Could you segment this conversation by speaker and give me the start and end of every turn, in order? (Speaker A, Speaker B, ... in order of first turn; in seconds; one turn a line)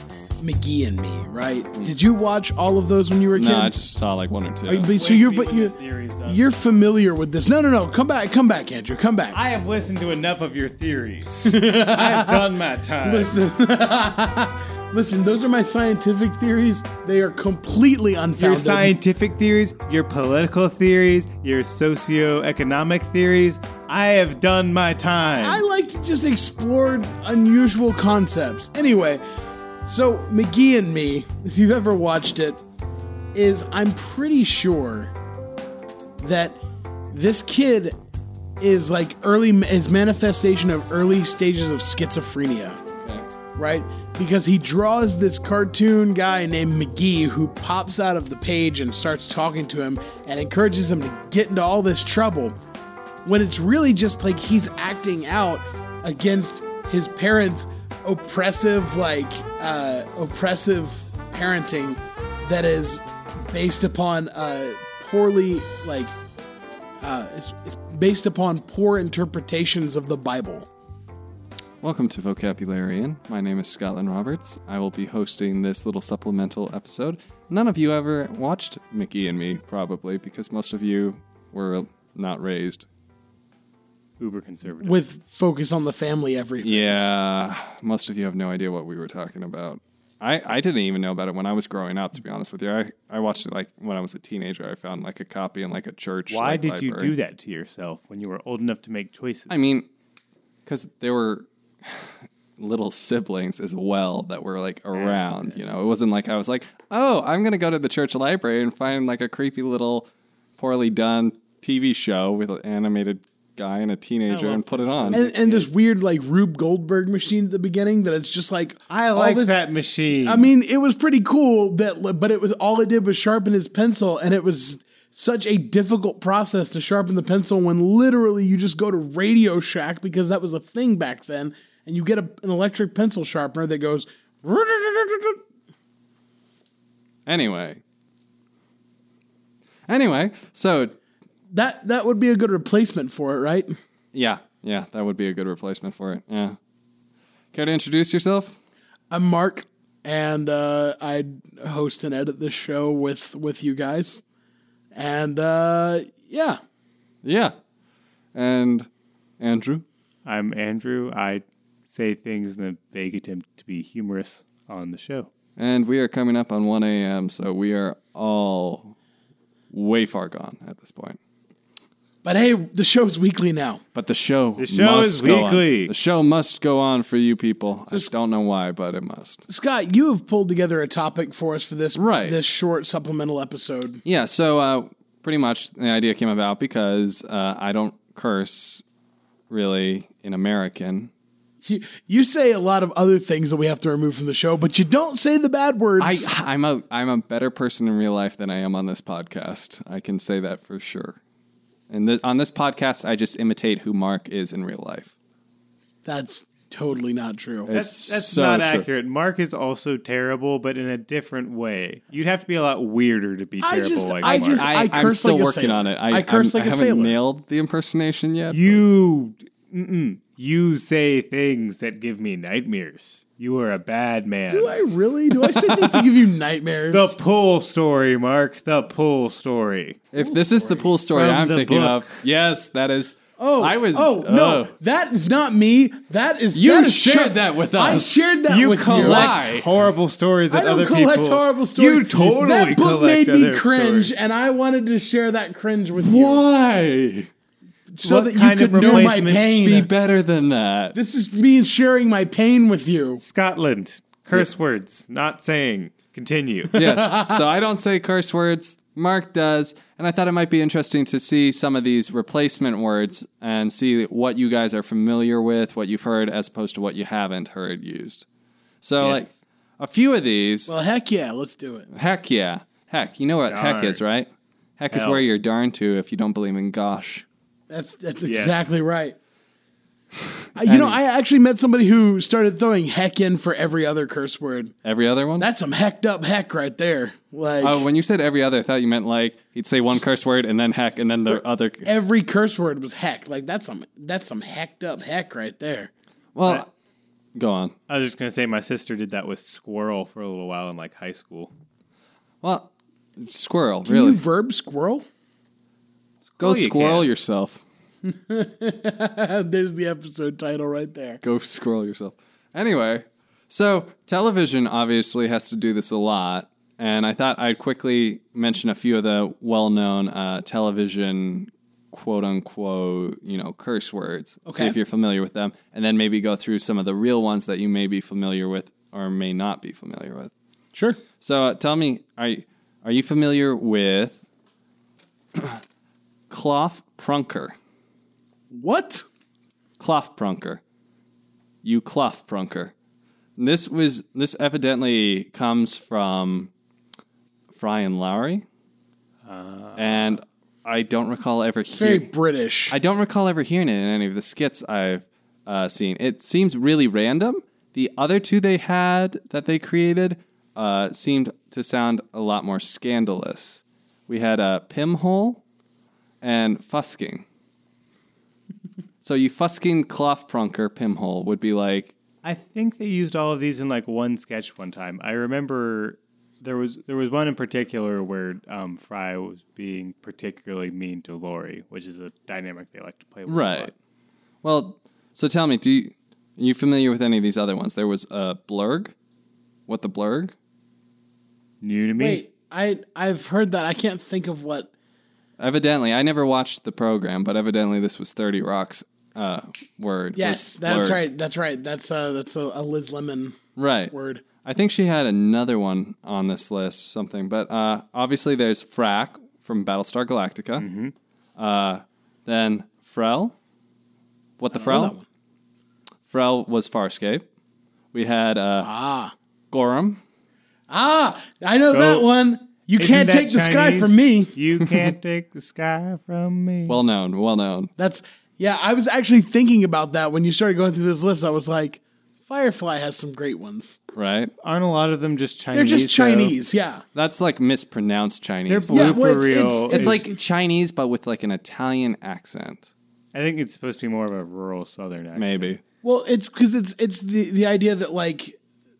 Speaker A: 0.4-3.7
Speaker B: 3.3-4.9
Speaker A: 4.7-9.4
Speaker C: 4.9-6.5
Speaker C: 9.3-13.3
Speaker A: 11.4-12.5
Speaker A: 13.1-19.0
Speaker C: 18.4-25.6
Speaker A: 25.4-29.2
Speaker A: 29.8-32.6
Speaker A: 33.3-35.1
Speaker A: 36.2-38.0
Speaker A: 38.6-42.8
Speaker B: 43.0-43.3
Speaker A: 43.6-52.6
Speaker A: 53.2-66.2
Speaker A: 67.0-70.7
Speaker B: 71.8-82.9
Speaker C: 84.2-85.0
Speaker A: 84.8-87.0
Speaker B: 86.6-97.2
Speaker C: 96.3-99.5
Speaker B: 99.5-99.9
Speaker B: 100.7-110.1
Speaker C: 105.0-105.5
Speaker B: 110.6-115.2
Speaker C: 114.3-115.7
Speaker A: 115.1-119.5
Speaker C: 118.9-120.5
Speaker A: 120.2-135.4
Speaker B: 137.3-137.8
Speaker B: 139.9-140.9
Speaker A: 141.5-143.7
Speaker B: 144.1-146.6
Speaker B: 147.5-148.6
Speaker A: 149.1-154.2
Speaker A: 154.9-156.6
Speaker B: 157.2-157.6
Speaker B: 158.3-158.9
Speaker B: 159.4-159.8
Speaker C: 160.2-165.3
Speaker B: 165.6-168.9
Speaker B: 169.7-171.2
Speaker A: 172.2-173.8
Speaker B: 173.9-179.5
Speaker C: 174.6-175.9
Speaker A: 179.5-184.0
Speaker B: 182.0-182.4
Speaker B: 184.1-188.8
Speaker B: 189.5-191.1
Speaker A: 191.6-196.3
Speaker B: 196.0-201.2
Speaker B: 201.9-205.1
Speaker A: 206.1-207.7
Speaker B: 207.7-208.9
Speaker C: 207.7-214.7
Speaker A: 213.6-217.2
Speaker B: 214.2-218.8
Speaker C: 218.5-226.2
Speaker A: 224.5-227.1
Speaker C: 226.9-230.0
Speaker B: 230.1-234.7
Speaker A: 230.2-231.0
Speaker C: 231.1-232.2
Speaker A: 233.4-239.6
Speaker B: 236.5-238.1
Speaker C: 238.4-244.3
Speaker B: 238.8-239.7
Speaker A: 240.5-246.5
Speaker B: 245.9-247.3
Speaker A: 247.9-249.9
Speaker C: 248.0-249.5
Speaker B: 248.8-250.9
Speaker A: 250.9-253.2
Speaker C: 253.2-256.7
Speaker A: 256.7-257.4
Speaker B: 256.7-268.3
Speaker B: 268.8-270.7
Speaker C: 269.0-269.4
Speaker A: 270.7-271.9
Speaker B: 271.9-277.2
Speaker C: 273.4-274.0
Speaker C: 274.9-275.2
Speaker A: 277.7-279.2
Speaker C: 278.2-278.8
Speaker A: 280.6-284.8
Speaker B: 280.6-281.0
Speaker B: 284.8-285.5
Speaker A: 285.4-287.9
Speaker B: 287.6-291.9
Speaker A: 291.3-295.9
Speaker B: 296.4-296.7
Speaker B: 297.4-297.8
Speaker C: 297.9-301.5
Speaker B: 302.4-304.2
Speaker A: 303.9-305.1
Speaker C: 306.3-307.1
Speaker B: 306.4-307.6
Speaker A: 308.0-311.2
Speaker B: 311.2-330.3
Speaker A: 324.5-324.8
Speaker A: 330.7-331.0
Speaker B: 331.2-334.2
Speaker B: 335.3-335.6
Speaker B: 336.3-337.6
Speaker A: 338.5-339.1
Speaker B: 339.8-340.6
Speaker B: 341.6-342.7
Speaker B: 343.4-346.5
Speaker B: 347.5-348.5
Speaker C: 349.2-350.2
Speaker B: 349.8-352.1
Speaker A: 351.7-352.8
Speaker B: 352.7-365.4
Speaker B: 366.2-367.2
Speaker B: 369.0-371.9
Speaker C: 372.2-383.7
Speaker B: 383.3-383.7
Speaker B: 384.4-388.9
Speaker B: 389.7-390.4
Speaker C: 391.6-392.3
Speaker A: 392.0-394.7
Speaker B: 395.4-401.0
Speaker A: 400.1-403.4
Speaker B: 403.6-410.7
Speaker A: 403.9-404.2
Speaker C: 410.6-410.9
Speaker B: 411.4-413.3
Speaker B: 414.4-415.0
Speaker A: 414.5-415.0
Speaker B: 416.1-417.3
Speaker B: 417.9-418.7
Speaker A: 418.6-419.1
Speaker B: 419.5-420.0
Speaker A: 420.7-424.4
Speaker C: 421.7-422.1
Speaker C: 422.8-426.8
Speaker B: 426.7-427.7
Speaker A: 427.8-433.8
Speaker B: 433.9-434.3
Speaker C: 434.4-436.4
Speaker A: 435.5-436.9
Speaker B: 436.9-439.0
Speaker C: 438.5-440.1
Speaker A: 438.7-440.1
Speaker B: 439.7-442.7
Speaker C: 443.1-445.5
Speaker B: 445.1-445.6
Speaker A: 445.8-448.4